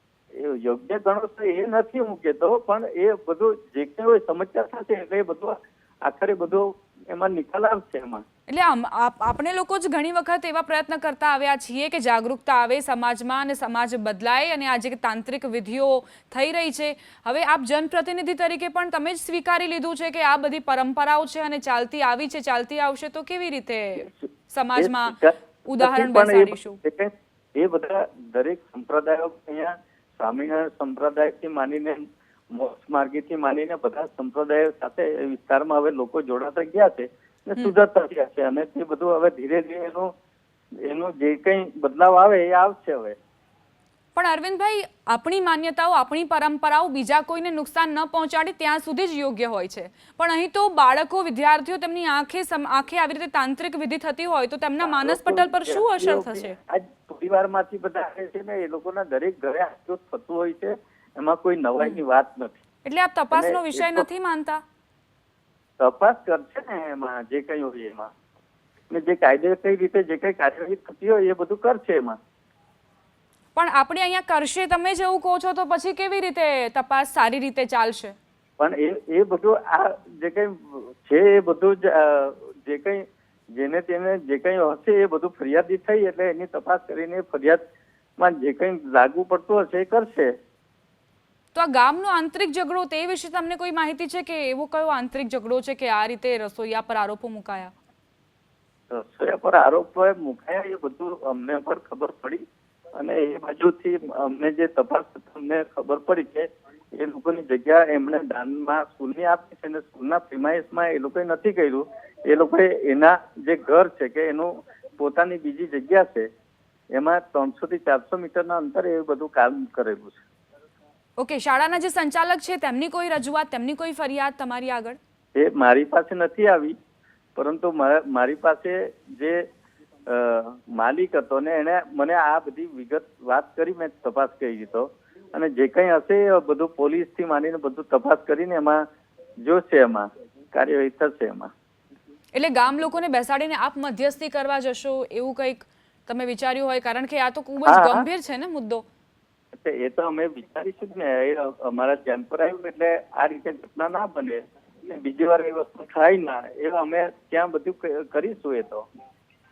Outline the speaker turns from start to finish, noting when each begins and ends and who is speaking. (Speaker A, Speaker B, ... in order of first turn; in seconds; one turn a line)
Speaker A: 0.3-8.2
Speaker B: 8.5-25.1
Speaker A: 24.8-40.1
Speaker B: 25.7-26.8
Speaker A: 40.8-43.2
Speaker B: 44.1-56.6
Speaker A: 54.8-62.6
Speaker B: 62.8-64.6
Speaker A: 63.3-64.1
Speaker A: 65.8-68.1
Speaker A: 68.9-72.2
Speaker B: 73.5-78.2
Speaker A: 78.6-83.0
Speaker A: 83.5-87.6
Speaker A: 88.2-90.3
Speaker B: 91.5-97.7
Speaker A: 98.9-102.4
Speaker A: 103.0-116.3
Speaker A: 116.9-120.2
Speaker B: 121.2-125.0
Speaker A: 125.3-126.7
Speaker A: 127.4-129.4
Speaker A: 130.1-138.8
Speaker A: 139.4-141.5
Speaker B: 142.3-148.8
Speaker A: 147.7-148.0
Speaker A: 149.6-158.9